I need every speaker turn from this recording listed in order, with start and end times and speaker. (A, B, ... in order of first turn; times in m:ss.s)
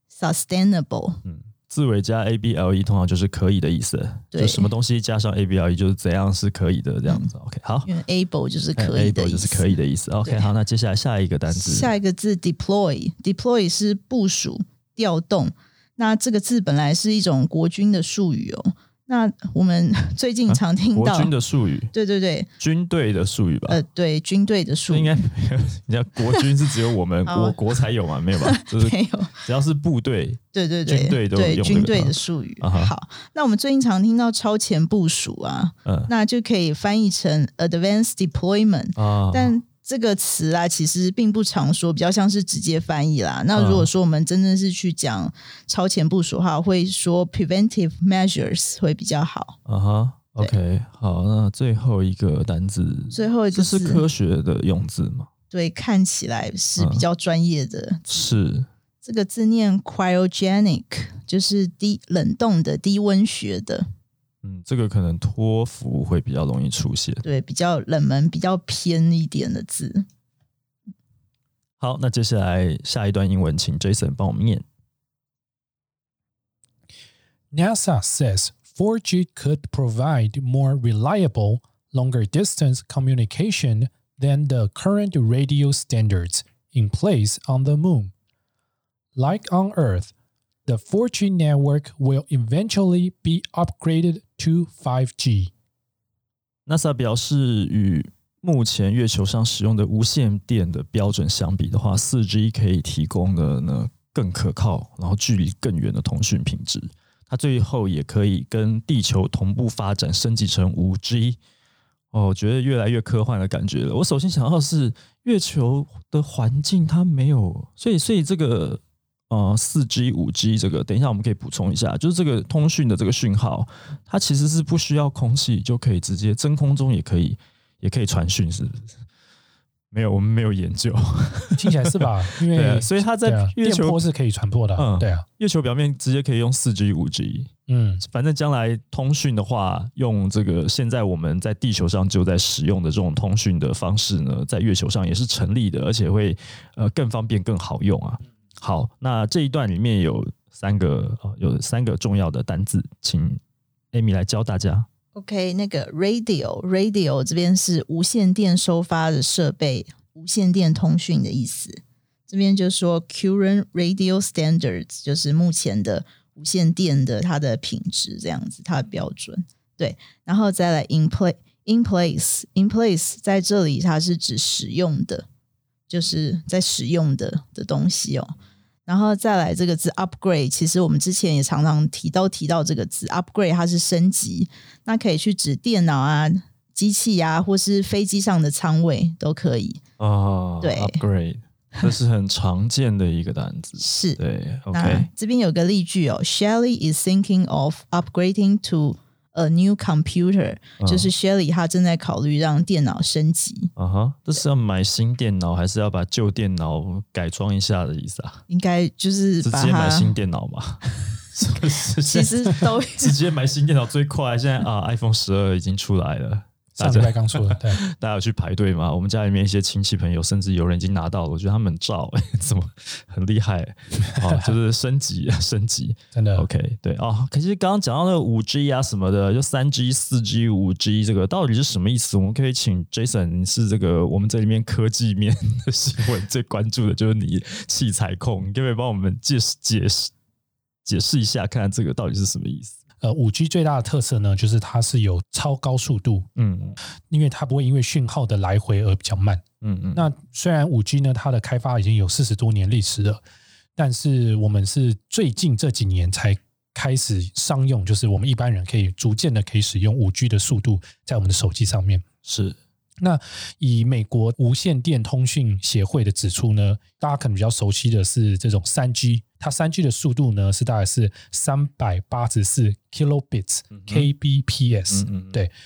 0:00.1-0:01.2 A
0:01.2-0:07.9 B
0:04.3-0:04.7 A
0:07.8-0:09.7 A
0:08.8-0:11.9 B
0:11.5-0:21.3 A
0:20.5-0:21.9 B
0:21.9-0:22.5 A
0:22.6-0:23.8 B
0:23.7-0:25.2 A
0:24.9-0:32.9 B
0:27.2-0:27.6 A
0:28.4-0:29.3 A
0:30.5-0:49.6 A
0:35.8-0:36.1 B
0:39.0-0:39.5 B
0:43.5-0:43.9 B
0:49.6-0:55.3 B
0:53.1-0:54.0 A
0:55.5-0:58.3 A
0:56.8-0:57.0 B
0:58.1-0:58.7 B
0:59.0-1:03.8 A
1:04.4-1:07.2 B
1:07.2-1:10.0 A
1:11.8-1:14.6 B
1:17.5-1:28.1 C
1:29.1-1:30.1 C
1:30.6-1:35.5 C
1:36.7-1:51.4 B
1:52.1-2:08.9 B
2:09.9-2:14.0 B
2:11.6-2:15.2 C
2:14.8-2:17.5 B
2:17.7-2:18.0 C
2:18.0-2:33.4 B
2:33.9-2:34.9 B
2:35.1-2:55.2 A
2:55.9-2:58.3 A
2:58.8-3:09.8 A
3:10.0-3:15.1 B
3:10.6-3:11.0 A
3:13.8-3:14.2 A
3:14.7-3:23.7 A
3:20.8-3:21.1 B
3:23.8-3:28.4 B
3:28.5-3:30.1 A
3:29.4-4:00.1 B
3:32.0-3:33.1 A
3:36.8-3:37.8 C
3:44.2-3:44.4 C
3:46.1-3:46.5 C
4:00.8-4:02.8 B
4:03.0-4:06.3 C
4:06.4-4:06.8 B
4:07.1-4:09.4 C
4:09.6-4:10.1 B
4:09.9-4:13.2 C
4:13.8-4:22.0 C
4:22.2-4:22.6 B
4:23.0-4:35.5 C
4:33.7-4:34.1 B
4:34.9-4:35.4 B